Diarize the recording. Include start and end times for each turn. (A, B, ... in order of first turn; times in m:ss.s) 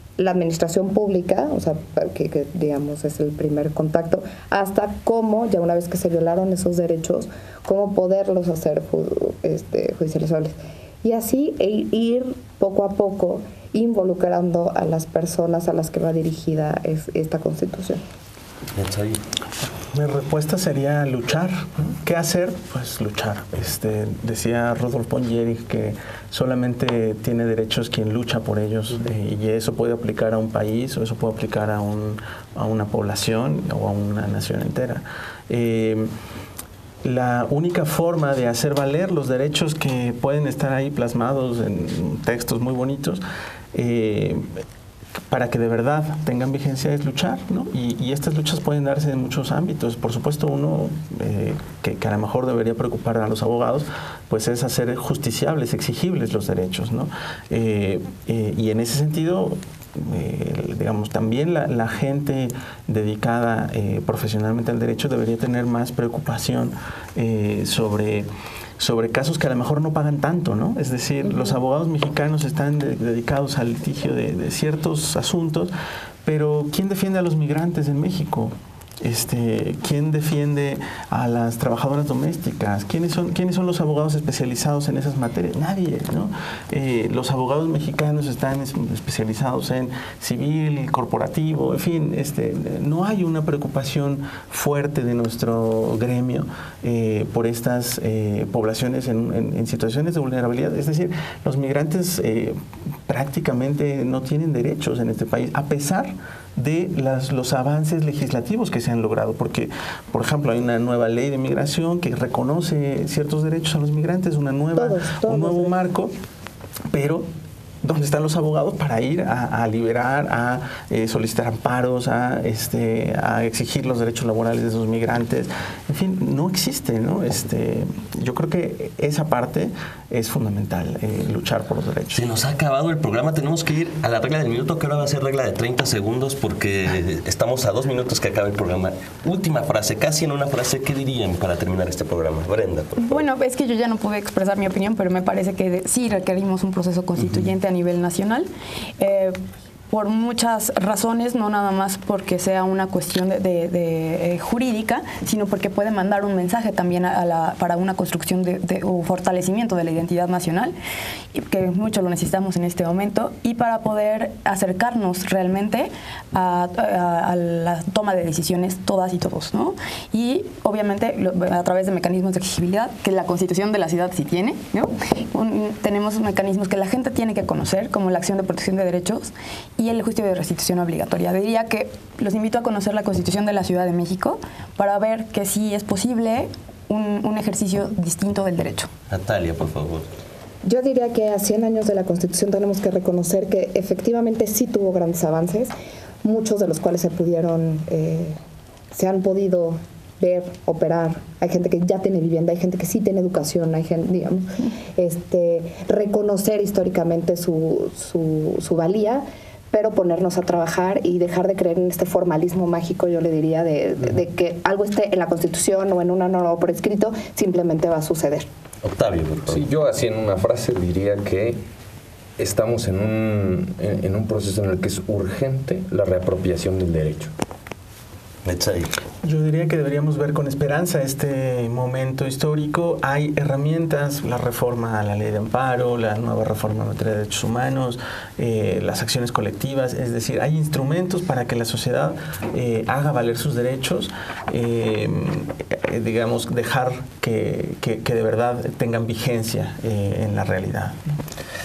0:00.2-0:18.0 A
0:18.8-0:19.2 B
0:19.9-0:36.1 C
0:37.0-0:43.2 C
0:43.7-0:44.6 C
0:45.3-1:08.3 C
1:08.8-1:15.7 C
1:16.2-1:56.1 C
1:54.7-1:55.8 A
1:56.9-1:57.3 C
1:57.8-2:12.2 C
2:12.1-2:23.2 B
2:23.0-2:28.5 D
2:29.0-2:29.4 D
2:29.9-2:40.7 D
2:41.3-3:08.9 D
3:09.1-3:10.1 B
3:10.6-3:15.7 A
3:16.2-3:18.4 A
3:18.9-3:38.5 A
3:38.8-3:39.6 B
3:39.5-3:41.6 E
3:42.4-3:47.3 E
3:48.4-3:49.0 B
3:49.2-4:11.2 C